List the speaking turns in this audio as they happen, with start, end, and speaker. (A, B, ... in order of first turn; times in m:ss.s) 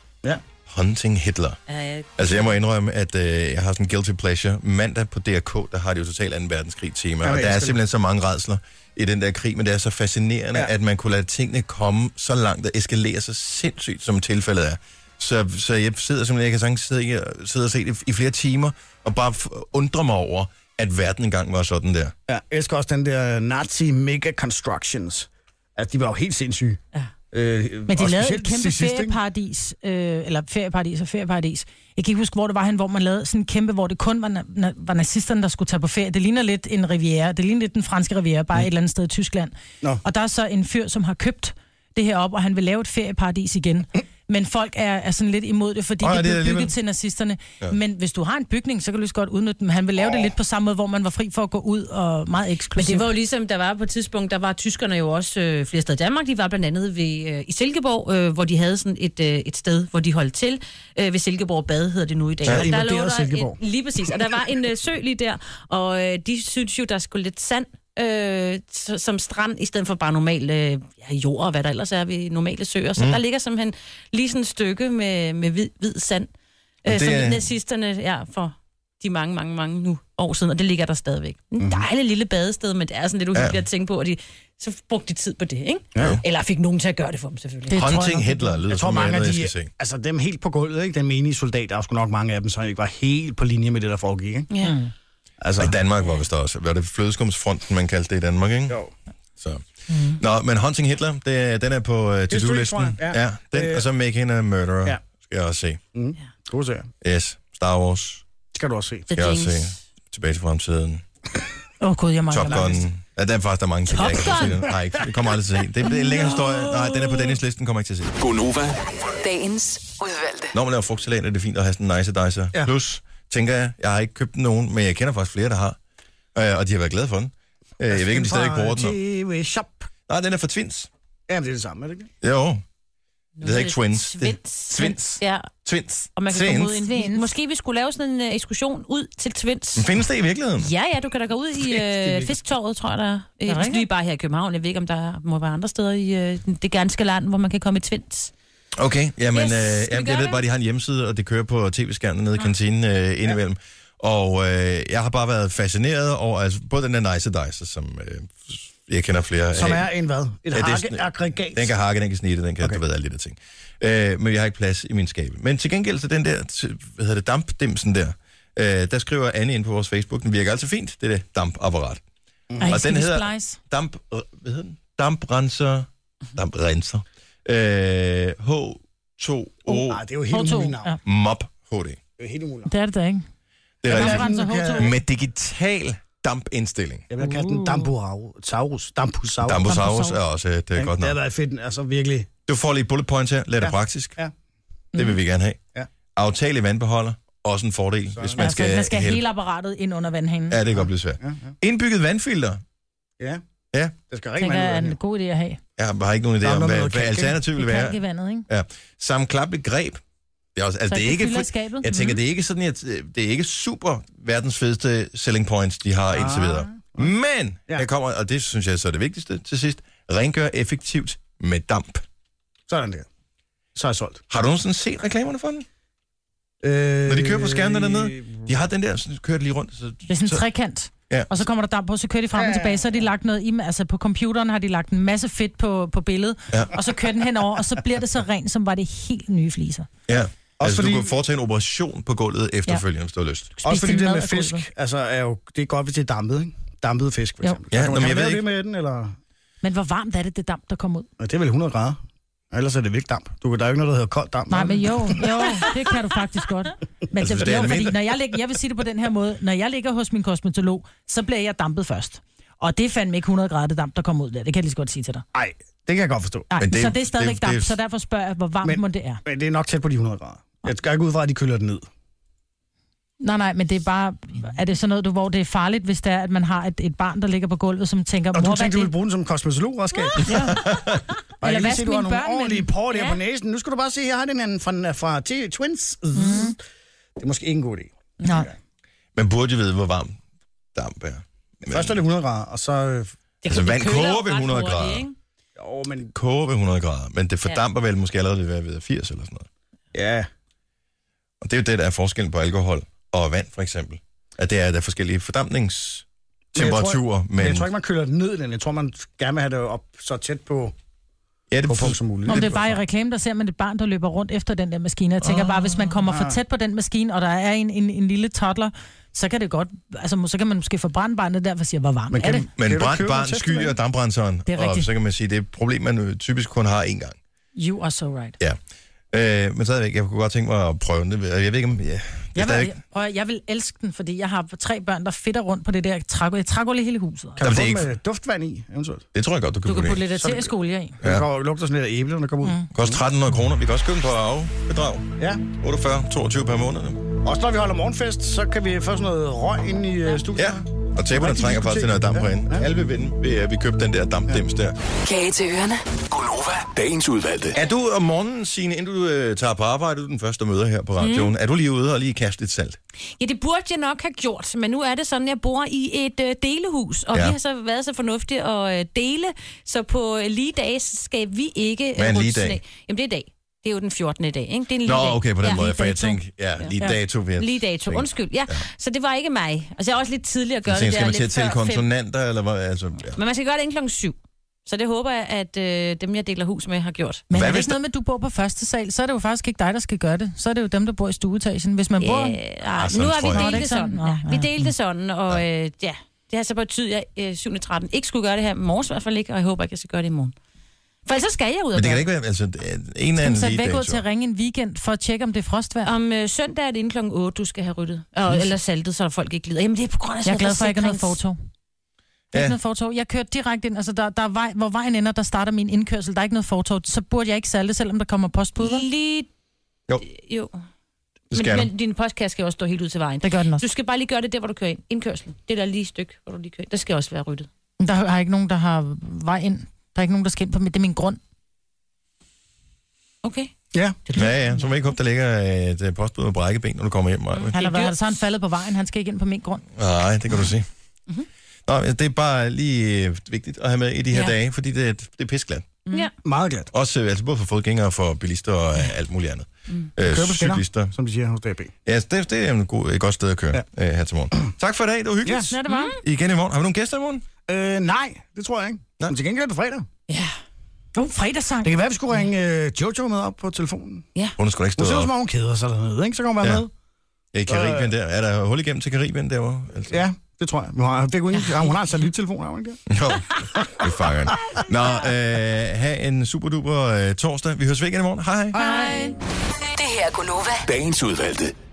0:00.7-0:01.6 A
0:01.7-0:02.5 B
0:02.2-0:22.2 A
0:07.2-0:07.8 C
0:22.3-0:26.8 C
0:27.3-0:29.2 C
0:27.9-0:39.5 D
0:40.0-0:53.1 D
0:46.0-0:46.7 A
0:52.8-1:16.3 B
1:02.4-1:03.6 C
1:02.4-1:02.7 A
1:16.8-1:28.0 B
1:16.9-1:17.5 A
1:21.6-1:21.9 C
1:23.3-1:23.6 A
1:27.7-1:28.6 D
1:27.8-1:29.7 A
1:28.7-1:34.5 C
1:34.5-1:34.8 B
1:34.6-1:34.9 D
1:35.4-1:35.8 C
1:35.6-1:38.8 A
1:39.4-1:45.8 A
1:42.3-1:43.8 C
1:46.0-1:46.9 C
1:47.0-1:48.2 A
1:48.5-1:49.1 C
1:49.1-1:49.8 B
1:49.2-1:51.0 A
1:51.8-1:52.7 D
1:52.3-1:58.2 A
1:52.4-1:52.9 C
1:53.9-1:54.5 D
1:54.0-1:54.6 B
1:56.0-1:57.2 B
1:58.2-1:58.8 E
1:59.2-2:00.6 F
2:00.5-2:05.8 A
2:06.4-2:09.0 A
2:07.9-2:09.9 C
2:10.1-2:10.9 A
2:11.3-2:12.1 C
2:12.2-2:12.6 A
2:13.4-2:15.5 B
2:13.4-2:16.8 A
2:14.8-2:15.2 D
2:16.2-2:19.9 B
2:16.6-2:17.4 D
2:19.8-2:20.7 A
2:20.6-2:28.3 B
2:21.8-2:22.4 C
2:23.5-2:23.9 D
2:28.8-2:39.9 A
2:29.3-2:30.4 B
2:39.5-2:41.7 C
2:40.5-2:52.0 A
2:52.6-2:53.6 D
2:52.6-3:00.0 A
2:59.7-3:00.9 C
3:00.3-3:01.0 D
3:01.0-3:02.0 A
3:02.2-3:02.7 C
3:02.7-3:03.3 D
3:03.8-3:07.1 A
3:03.9-3:04.9 C
3:03.9-3:04.9 D
3:07.1-3:09.8 C
3:07.2-3:07.9 D
3:09.4-3:11.2 A
3:09.6-3:10.2 D
3:10.8-3:12.3 C
3:12.5-3:14.2 A
3:13.6-3:14.3 C
3:15.0-3:15.6 A
3:16.1-3:19.2 A
3:18.2-3:18.5 C
3:18.4-3:20.6 D
3:20.5-3:22.6 A
3:20.8-3:21.5 C
3:24.1-3:25.0 C
3:24.4-3:25.6 D
3:25.8-3:30.0 A
3:26.4-3:27.4 C
3:27.6-3:28.5 D
3:30.6-3:42.0 A
3:30.9-3:32.2 D
3:36.1-3:37.1 C
3:42.7-3:43.1 C
3:43.8-3:44.2 C
3:44.3-3:45.7 A
3:46.6-3:48.5 C
3:47.0-3:50.4 A
3:50.1-3:59.9 D
3:52.3-3:53.0 C
4:00.1-4:03.6 A
4:00.6-4:01.1 C
4:03.6-4:04.6 D
4:03.6-4:09.2 C
4:07.7-4:08.5 A
4:09.6-4:11.1 D
4:11.2-4:12.0 C
4:12.5-4:15.6 C
4:14.5-4:25.2 D
4:17.2-4:18.0 A
4:25.3-4:26.5 C
4:26.5-4:29.2 D
4:26.6-4:27.8 A
4:28.6-4:31.9 C
4:33.2-4:38.9 D
4:38.3-4:40.6 C
4:40.2-4:40.7 D
4:40.5-4:41.0 A
4:41.4-4:46.6 C
4:41.4-4:42.7 D
4:46.1-4:46.6 D
4:47.2-4:48.6 C
4:48.2-4:48.5 D
4:49.2-4:50.2 A
4:50.8-4:52.0 A
4:51.7-4:53.2 C
4:53.4-4:55.1 B
4:53.5-4:55.1 A
4:55.6-4:56.1 C
4:56.1-4:59.5 A
4:59.9-5:00.3 C
5:01.4-5:07.7 A
5:06.5-5:10.7 C
5:11.5-5:12.6 A
5:11.7-5:12.8 C
5:12.3-5:22.5 D
5:16.1-5:16.4 C
5:22.1-5:23.8 C
5:22.5-5:27.2 A
5:24.5-5:24.9 D
5:27.6-5:28.4 D
5:29.1-5:32.8 A
5:32.4-5:37.4 D
5:37.4-5:39.0 C
5:37.4-5:37.9 A
5:39.1-5:40.1 A
5:39.6-5:41.0 D
5:40.2-5:43.0 C
5:41.0-5:41.3 A
5:42.4-5:42.7 D
5:42.7-5:47.0 A
5:45.2-5:45.4 C
5:47.2-5:52.7 C
5:50.4-5:54.8 A
5:55.0-5:56.8 F
5:56.2-5:57.5 E
5:57.5-6:02.8 A
6:01.0-6:01.3 B
6:03.2-6:16.7 B
6:12.0-6:12.6 A
6:14.8-6:18.6 A
6:17.4-6:21.9 B
6:20.7-6:23.2 A
6:23.1-6:27.3 B
6:27.3-6:32.4 D
6:27.3-6:27.8 A
6:32.0-6:40.3 B
6:32.8-6:33.6 A
6:33.3-6:34.7 D
6:41.1-6:42.0 B
6:41.7-6:44.0 A
6:43.2-6:46.0 D
6:45.8-6:51.2 B
6:50.2-6:51.4 D
6:52.3-6:52.6 A
6:52.3-6:58.9 D
6:58.6-6:59.3 B
7:00.0-7:00.6 B
7:01.3-7:01.7 A
7:01.3-7:07.5 B
7:03.2-7:03.6 D
7:07.8-7:11.2 D
7:13.2-7:13.5 B
7:14.1-7:14.4 B
7:14.1-7:17.6 A
7:17.4-7:18.0 B
7:17.6-7:19.6 D
7:19.8-7:20.7 A
7:21.7-7:25.8 A
7:26.2-7:26.7 C
7:26.7-7:30.9 A
7:30.0-7:31.7 C
7:31.9-7:37.2 A
7:35.2-7:35.5 C
7:35.5-7:36.0 D
7:35.7-7:36.0 B
7:37.5-7:39.9 C
7:40.1-7:40.3 B
7:41.0-7:41.7 D
7:41.6-7:44.1 C
7:44.4-7:45.1 A
7:44.8-7:46.7 C
7:47.3-7:50.1 A
7:47.5-7:47.9 C
7:49.9-7:52.8 C
7:51.4-7:51.8 B
7:52.9-7:58.6 A
7:53.4-7:54.5 C
7:58.6-7:59.2 B
7:58.6-7:59.1 C
7:58.6-7:59.0 D
7:59.7-8:00.8 F
8:00.7-8:01.5 E